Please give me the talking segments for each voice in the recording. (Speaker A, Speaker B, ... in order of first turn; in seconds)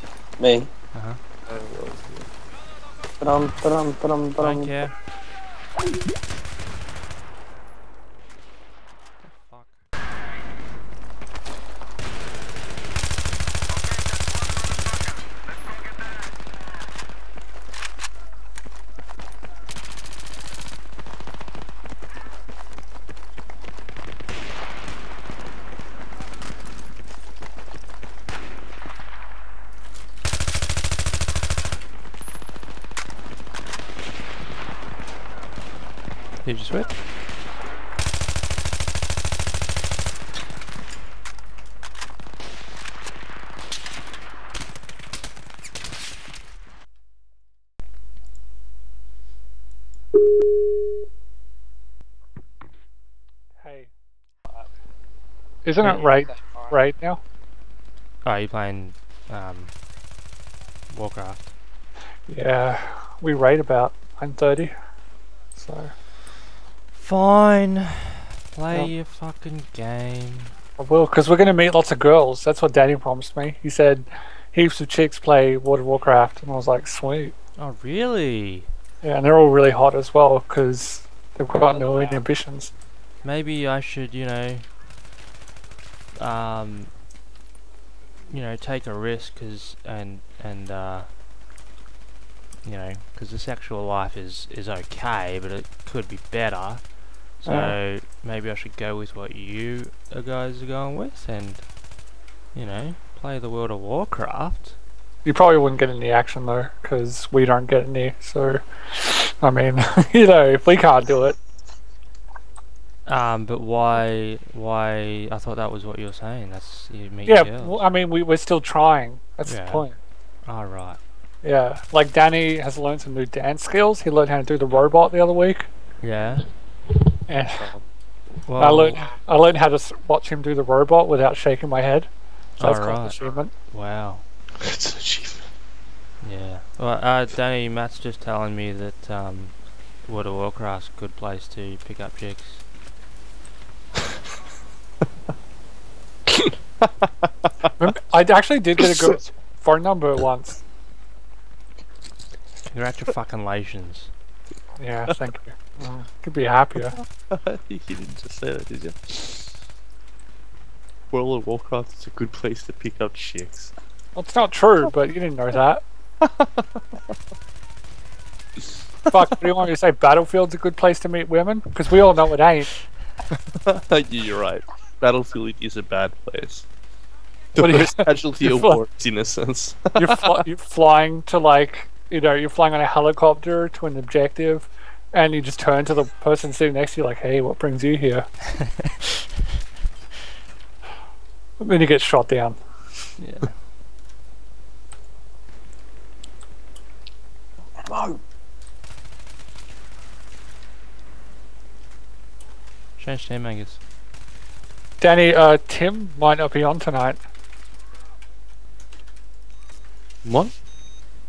Speaker A: 0.4-0.7, 1.5-2.2, 3.2-4.8, 197.8-198.2
Speaker B: 0.9-1.2, 4.4-5.0, 9.2-9.8, 36.4-37.0, 58.2-59.8, 60.9-61.5, 66.9-70.5, 77.6-78.7, 83.2-84.7, 86.2-86.9, 88.3-91.1, 92.6-101.7, 102.5-104.8, 113.1-117.9, 119.5-119.9, 120.5-121.0, 126.0-126.5, 128.5-129.1, 132.6-133.2, 133.7-134.3, 136.2-142.7, 152.7-154.1, 193.2-193.6, 203.0-203.8
Speaker C: 53.6-53.9, 55.6-57.2, 62.3-64.7, 65.5-66.0, 70.8-77.3, 79.0-82.7, 97.5-97.8, 105.2-111.4, 117.3-120.0, 121.4-125.7, 127.3-127.7, 128.6-132.1, 132.6-133.5, 147.8-150.6, 154.8-156.9, 164.2-165.8, 169.1-172.8, 177.6-178.8, 180.0-188.3, 191.6-192.6, 205.0-207.2
Speaker D: 134.6-135.5, 146.8-147.7, 156.8-159.6, 161.1-163.7, 166.2-166.8, 173.7-176.7, 177.5-180.2, 210.2-210.5